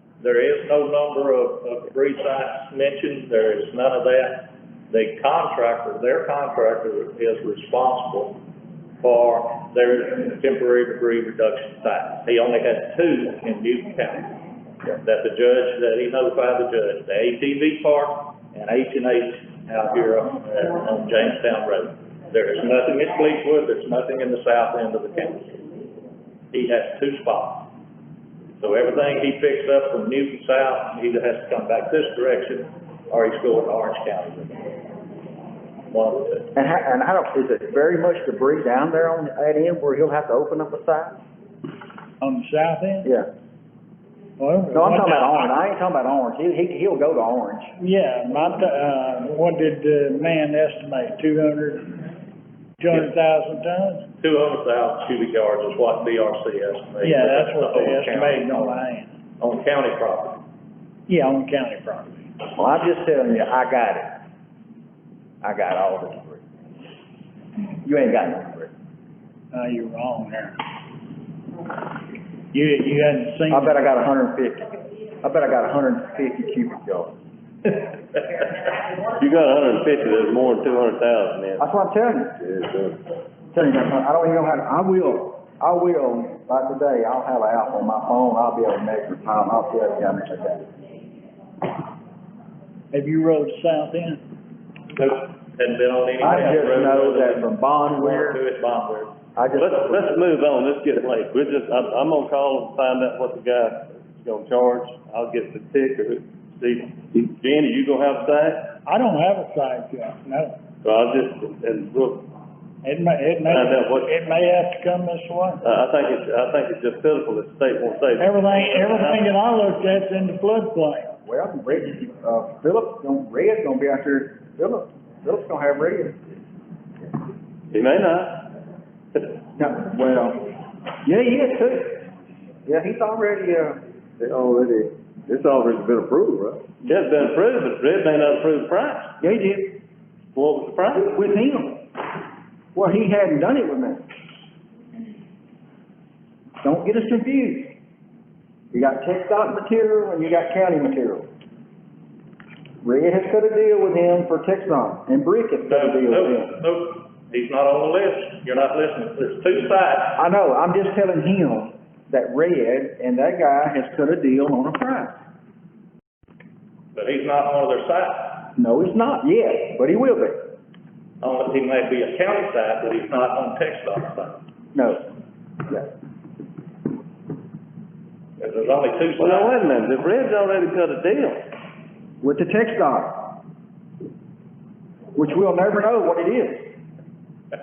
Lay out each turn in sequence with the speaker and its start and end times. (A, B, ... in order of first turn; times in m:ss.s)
0:00.2-0:08.4 A
0:09.0-0:14.3 A
0:15.0-0:25.6 A
0:26.5-0:27.7 A
0:28.6-0:34.6 A
0:35.9-0:36.5 A
0:36.5-0:41.2 B
0:42.2-0:43.1 C
0:43.0-0:43.3 B
0:44.4-0:45.4 C
0:44.7-0:47.7 B
0:47.8-0:52.0 C
0:52.8-0:54.0 C
0:54.2-0:58.9 A
0:57.0-0:59.1 C
0:59.4-1:00.4 A
1:01.1-1:02.3 C
1:02.5-1:04.2 B
1:05.4-1:06.4 B
1:07.8-1:08.7 B
1:09.5-1:10.6 C
1:12.5-1:13.9 C
1:13.5-1:17.2 B
1:19.0-1:21.6 D
1:21.6-1:22.5 B
1:22.4-1:23.0 E
1:23.5-1:30.7 B
1:32.9-1:34.2 C
1:34.9-1:39.2 A
1:36.2-1:38.4 B
1:39.4-1:40.2 B
1:39.6-1:48.8 D
1:48.8-1:50.6 C
1:50.8-1:52.2 D
1:52.8-1:55.6 C
1:53.5-1:54.1 D
1:55.6-1:59.3 D
1:58.2-2:01.1 C
2:01.2-2:06.4 B
2:07.7-2:08.5 D
2:09.6-2:10.4 B
2:11.0-2:12.0 B
2:12.6-2:13.8 B
2:14.2-2:16.6 E
2:16.8-2:19.1 D
2:19.2-2:19.8 B
2:20.3-2:21.1 D
2:21.1-2:21.8 B
2:22.7-2:24.0 B
2:26.6-2:27.7 B
2:28.7-2:31.3 B
2:32.8-2:36.6 B
2:35.6-2:40.2 A
2:40.2-2:45.2 B
2:46.9-2:48.5 A
2:48.6-2:50.4 B
2:51.2-2:54.4 A
2:54.7-2:55.0 B
2:58.4-2:59.6 A
2:59.2-3:01.4 D
3:02.2-3:03.4 B
3:05.1-3:06.7 B